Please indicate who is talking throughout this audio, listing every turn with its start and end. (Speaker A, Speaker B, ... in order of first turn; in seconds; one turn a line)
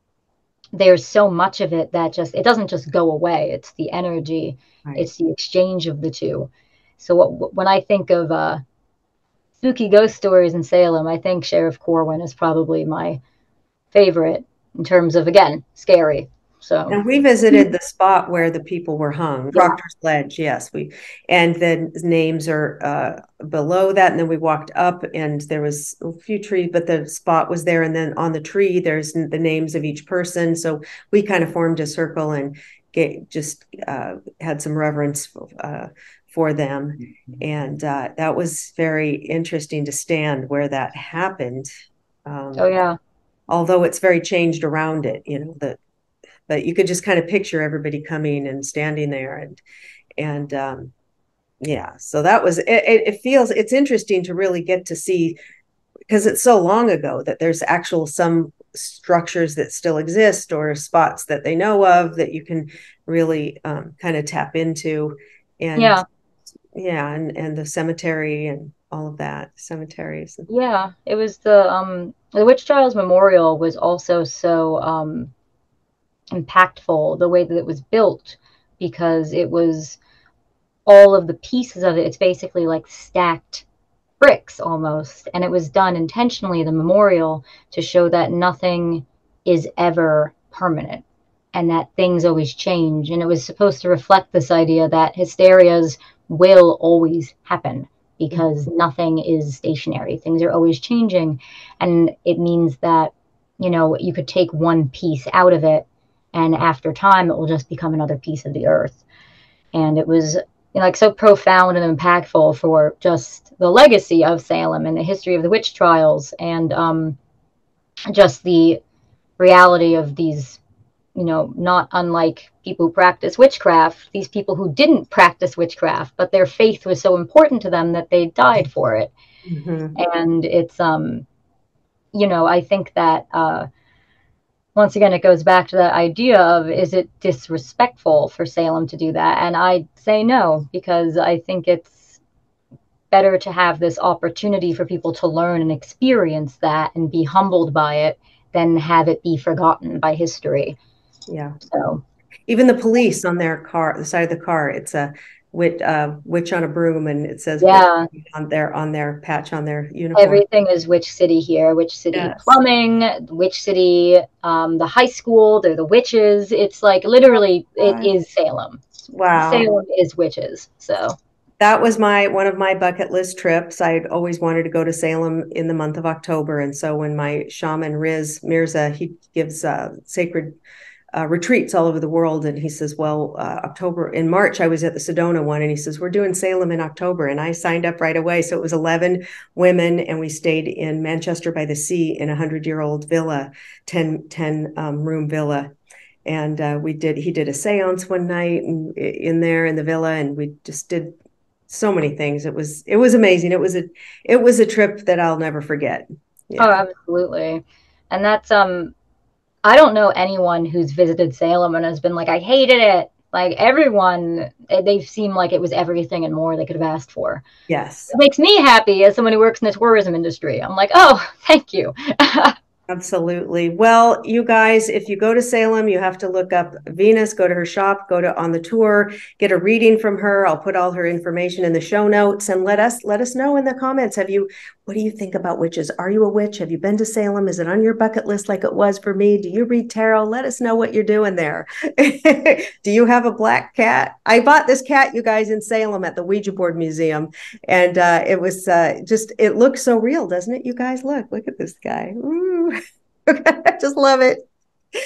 Speaker A: 0.7-8.6
Speaker A: 9.6-13.2
Speaker A: 13.9-17.0
Speaker B: 16.9-41.7
Speaker B: 42.2-42.7
Speaker A: 42.5-43.0
Speaker B: 43.5-45.8
Speaker B: 46.5-49.6
Speaker B: 50.2-50.9
Speaker B: 51.6-55.4
Speaker B: 56.1-66.0
Speaker A: 65.8-66.0
Speaker B: 66.7-70.5
Speaker A: 70.5-75.3
Speaker A: 76.3-80.0
Speaker A: 80.9-83.7
Speaker A: 84.2-109.0
Speaker A: 109.7-117.2
Speaker A: 118.1-118.8
Speaker A: 119.4-120.6
Speaker A: 121.1-129.1
Speaker B: 129.5-129.9
Speaker A: 129.9-131.2
Speaker A: 132.1-133.7
Speaker A: 134.7-142.2
Speaker A: 143.1-150.8
Speaker B: 151.3-151.6
Speaker A: 151.7-152.0
Speaker B: 152.5-160.4
Speaker A: 157.6-158.1
Speaker A: 160.1-168.8
Speaker B: 162.1-162.5
Speaker B: 167.8-168.1
Speaker B: 169.1-169.7
Speaker A: 169.3-171.2
Speaker B: 171.6-180.5
Speaker B: 181.1-195.7
Speaker B: 196.2-201.2
Speaker B: 201.7-206.8
Speaker A: 206.6-208.9
Speaker A: 209.6-217.4
Speaker B: 217.7-218.1
Speaker A: 218.1-222.5
Speaker B: 222.9-254.4